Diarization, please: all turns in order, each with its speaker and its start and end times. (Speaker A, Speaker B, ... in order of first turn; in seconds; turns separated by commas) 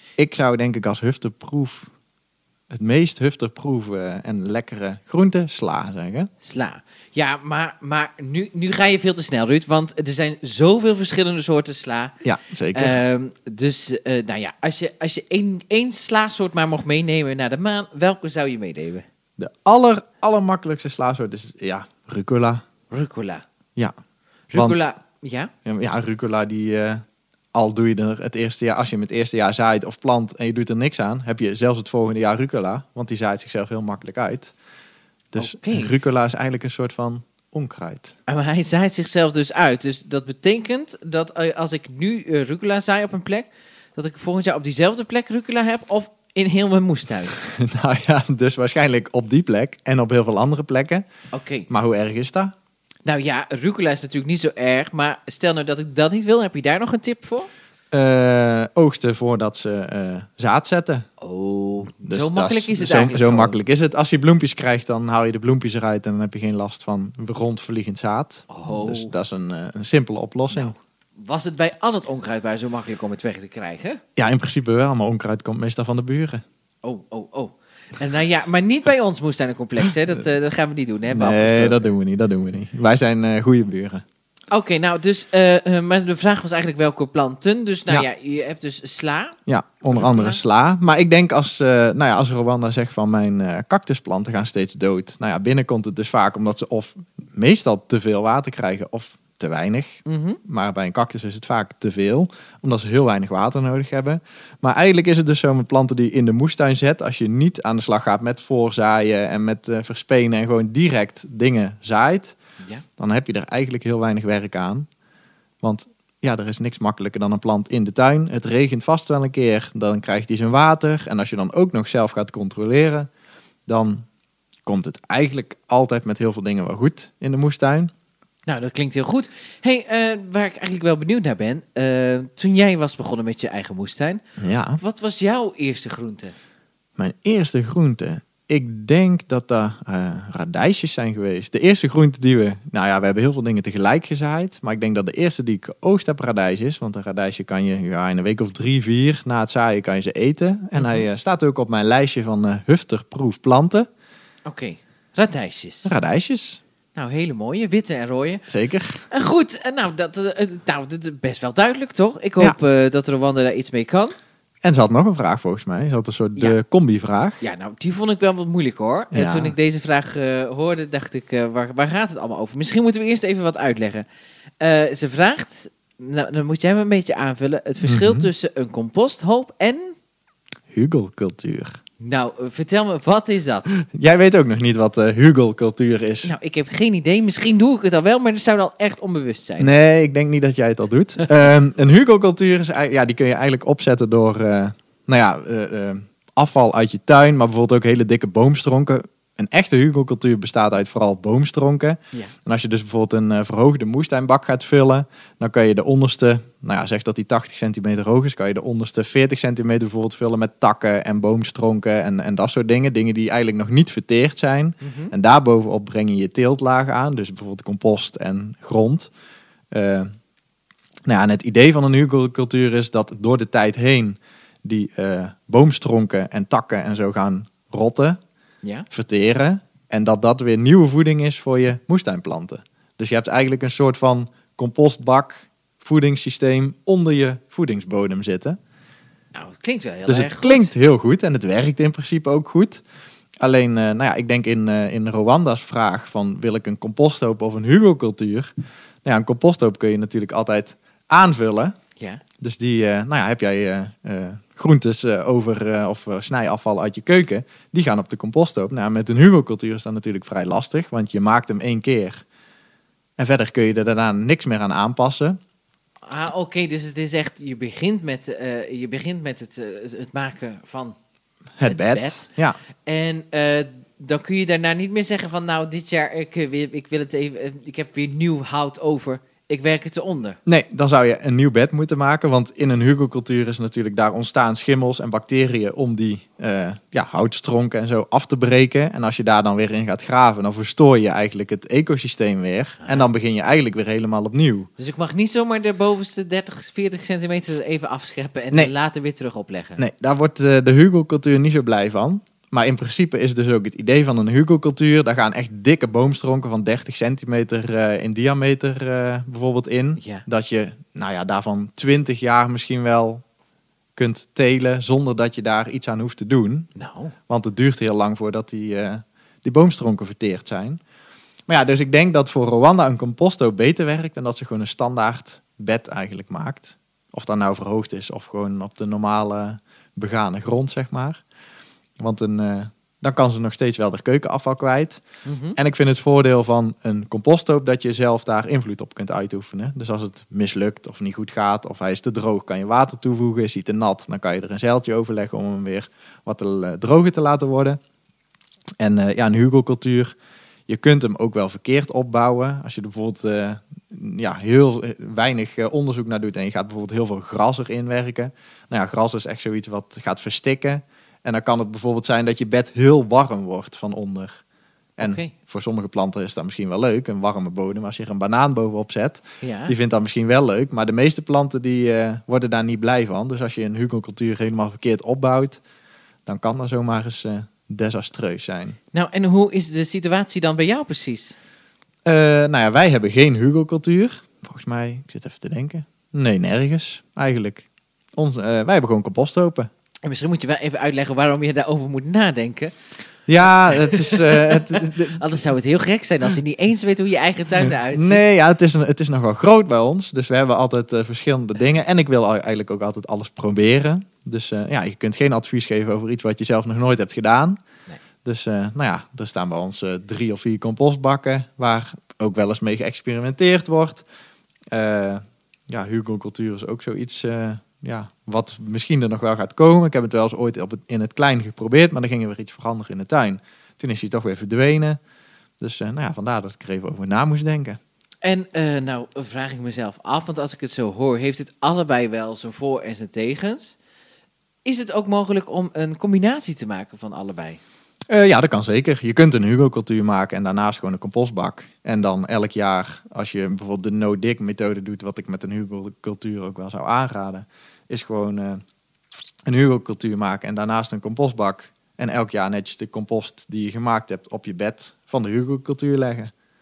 Speaker A: 0.2-1.9, Speaker A: 2.7-6.3, Speaker B: 6.4-12.2, Speaker A: 12.2-13.0, Speaker B: 12.7-19.0, Speaker A: 19.4-22.6, Speaker B: 22.9-23.4, Speaker B: 24.5-25.5, Speaker A: 24.5-24.8, Speaker A: 25.6-34.5, Speaker A: 35.3-38.1, Speaker B: 35.4-35.9, Speaker B: 38.3-47.4, Speaker A: 47.3-51.0, Speaker B: 51.3-51.7, Speaker A: 51.7-52.5, Speaker B: 53.0-57.5, Speaker A: 57.9-61.1, Speaker B: 61.2-63.6, Speaker A: 62.0-70.7, Speaker B: 68.5-69.1, Speaker B: 70.5-74.0, Speaker A: 74.2-76.4, Speaker B: 76.8-81.8, Speaker A: 81.1-84.0, Speaker B: 84.5-89.4, Speaker A: 89.5-112.3, Speaker B: 89.9-90.4, Speaker B: 100.0-100.4, Speaker B: 112.6-112.8, Speaker A: 113.0-114.9, Speaker A: 115.6-123.1, Speaker A: 123.7-124.0, Speaker A: 124.7-127.9, Speaker B: 128.5-134.2, Speaker A: 134.4-134.8, Speaker B: 134.8-136.3, Speaker A: 137.0-153.9, Speaker B: 150.8-151.0, Speaker B: 154.4-155.9, Speaker A: 155.8-156.6, Speaker B: 156.9-158.4, Speaker A: 158.5-159.1, Speaker B: 159.1-164.1, Speaker A: 164.6-167.4, Speaker B: 167.4-174.1, Speaker A: 169.1-169.5, Speaker B: 174.6-179.9, Speaker A: 177.8-178.3, Speaker A: 180.7-181.8, Speaker B: 182.0-183.7, Speaker A: 183.8-186.3, Speaker B: 186.2-189.7, Speaker A: 189.6-219.1, Speaker B: 214.8-215.1, Speaker A: 219.7-220.1, Speaker A: 221.1-228.2, Speaker A: 228.9-238.6, Speaker B: 239.3-240.7, Speaker A: 240.1-242.8, Speaker A: 243.4-248.5, Speaker A: 249.0-251.8, Speaker A: 252.4-262.2, Speaker A: 263.2-265.4, Speaker B: 266.1-271.0, Speaker A: 271.6-272.6, Speaker B: 271.6-272.3, Speaker B: 272.8-280.4, Speaker A: 280.4-294.7, Speaker B: 294.8-299.8, Speaker A: 299.8-313.2, Speaker B: 310.0-310.2, Speaker A: 313.9-316.7, Speaker B: 316.8-317.1, Speaker A: 317.3-320.8, Speaker A: 321.5-331.2, Speaker A: 332.0-335.0, Speaker B: 335.2-335.6, Speaker A: 335.5-347.8, Speaker A: 348.8-350.1, Speaker A: 350.7-364.4, Speaker A: 365.0-375.6, Speaker B: 365.0-365.3, Speaker B: 369.4-369.7, Speaker A: 376.2-378.8, Speaker B: 378.9-381.3, Speaker A: 382.0-389.7, Speaker B: 390.0-392.7, Speaker A: 393.3-395.3, Speaker B: 393.7-398.2, Speaker A: 397.6-407.6, Speaker A: 408.2-414.1, Speaker A: 414.7-425.0, Speaker A: 425.6-427.8, Speaker B: 428.2-433.7, Speaker B: 434.6-437.6, Speaker A: 438.1-448.6, Speaker A: 449.4-456.3